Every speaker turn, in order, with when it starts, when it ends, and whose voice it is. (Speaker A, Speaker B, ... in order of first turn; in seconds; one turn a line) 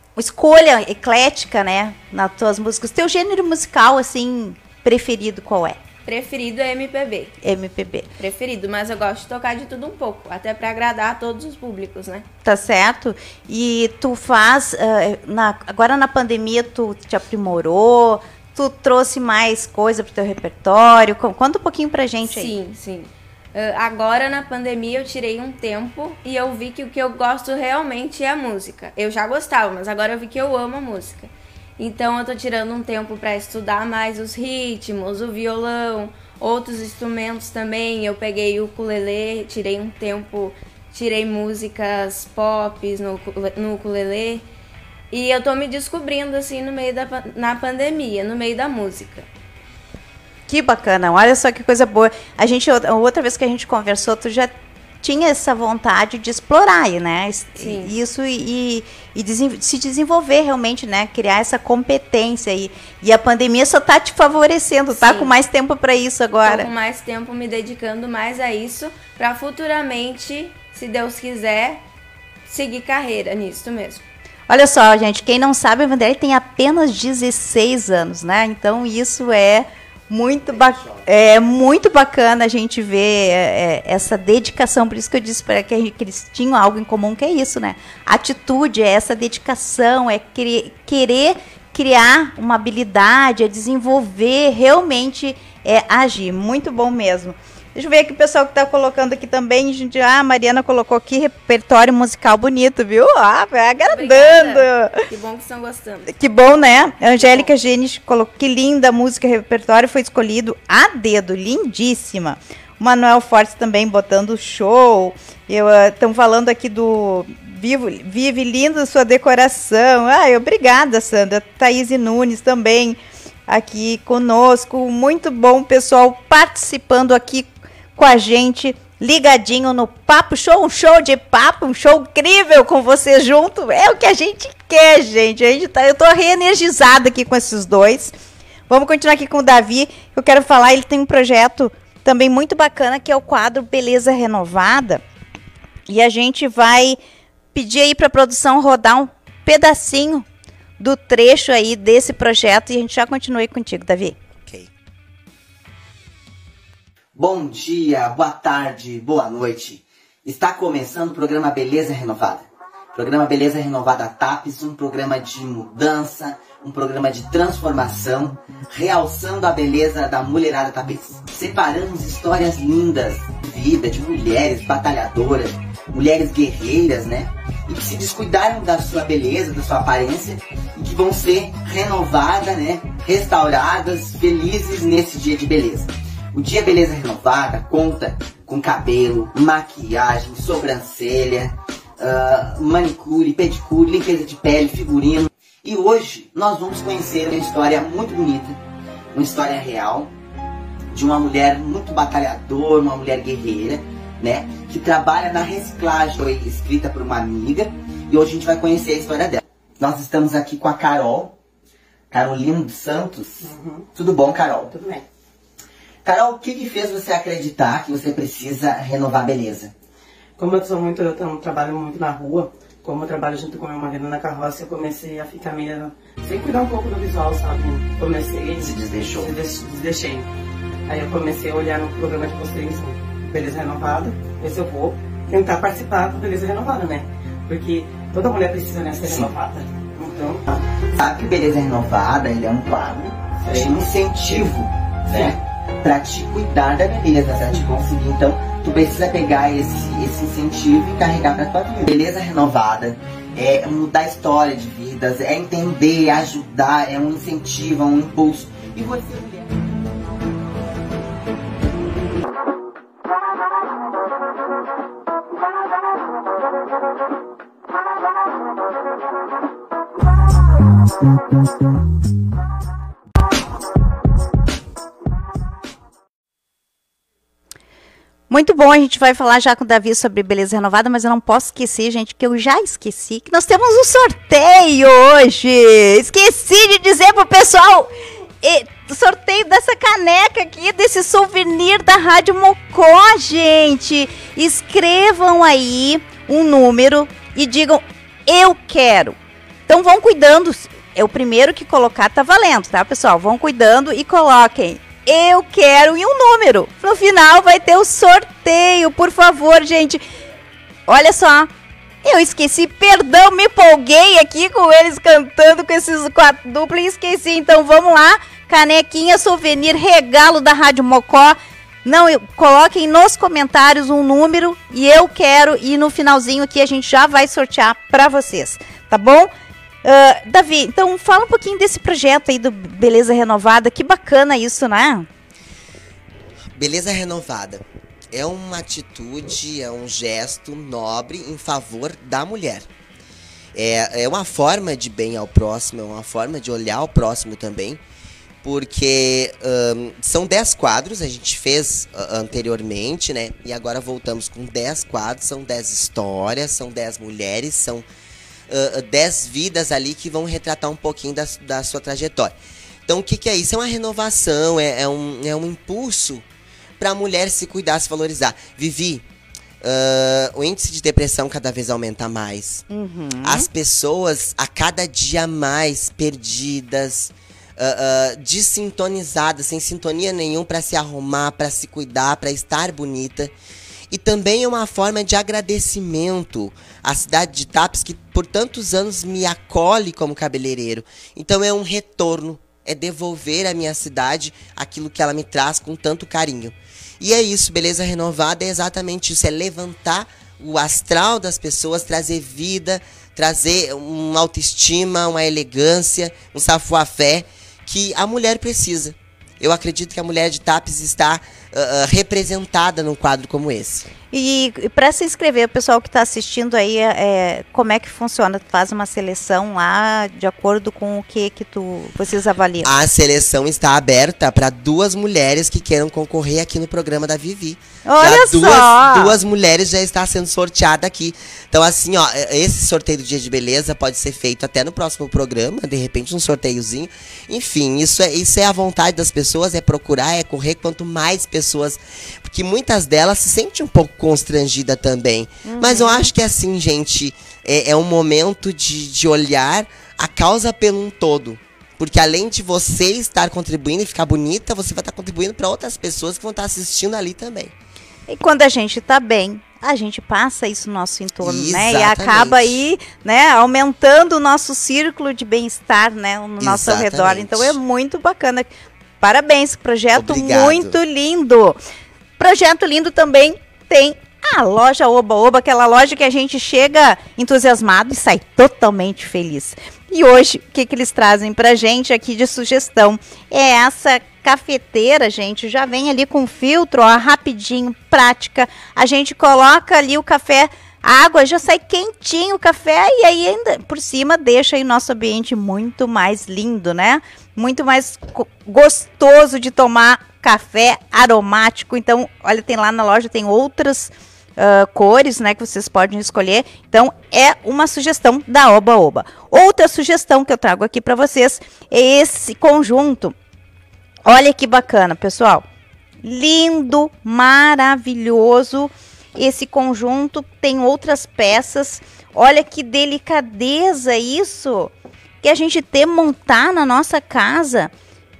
Speaker A: 0.1-5.8
Speaker B: 6.0-7.3
Speaker A: 7.4-8.1
Speaker B: 8.2-12.2
Speaker A: 12.4-22.5
Speaker B: 22.3-44.4
Speaker B: 45.1-49.3
Speaker A: 50.5-66.7
Speaker B: 57.6-57.9
Speaker B: 65.0-65.3
Speaker B: 66.4-71.8
Speaker B: 72.5-74.0
Speaker A: 74.5-105.0
Speaker C: 80.6-81.0
Speaker B: 103.9-106.2
Speaker A: 106.1-138.1
Speaker B: 107.2-107.5
Speaker A: 138.7-145.0
Speaker A: 145.9-147.0
Speaker A: 147.5-150.2
Speaker A: 150.8-154.2
Speaker D: 157.2-162.4
Speaker D: 162.9-198.6
Speaker D: 199.1-200.1
Speaker D: 200.9-211.3
Speaker D: 212.1-213.3
Speaker E: 213.4-213.9
Speaker D: 214.0-214.7
Speaker E: 214.7-215.0
Speaker D: 216.1-219.7
Speaker E: 220.4-230.3
Speaker D: 228.7-229.2
Speaker E: 230.9-240.4
Speaker D: 241.0-245.3
Speaker E: 245.1-245.3
Speaker D: 245.8-259.1
Speaker A: 278.3-287.9
Speaker A: 288.4-299.1
Speaker A: 299.7-310.0
Speaker A: 310.9-311.5
Speaker A: 312.0-329.3
Speaker A: 329.8-335.1
Speaker C: 336.6-342.7
Speaker C: 343.5-347.8
Speaker C: 348.4-357.9
Speaker C: 358.5-366.2
Speaker C: 366.8-369.0
Speaker C: 369.6-372.6
Speaker A: 372.7-373.5
Speaker C: 373.2-383.3
Speaker C: 383.9-413.9
Speaker A: 414.1-422.7
Speaker C: 422.6-457.5
Speaker A: 427.9-429.2
Speaker A: 445.4-446.1
Speaker A: 458.1-468.5
Speaker C: 461.2-462.6
Speaker C: 466.4-467.6
Speaker A: 469.0-471.6
Speaker C: 469.9-470.8
Speaker A: 472.2-513.1
Speaker A: 514.0-515.4
Speaker A: 516.0-527.7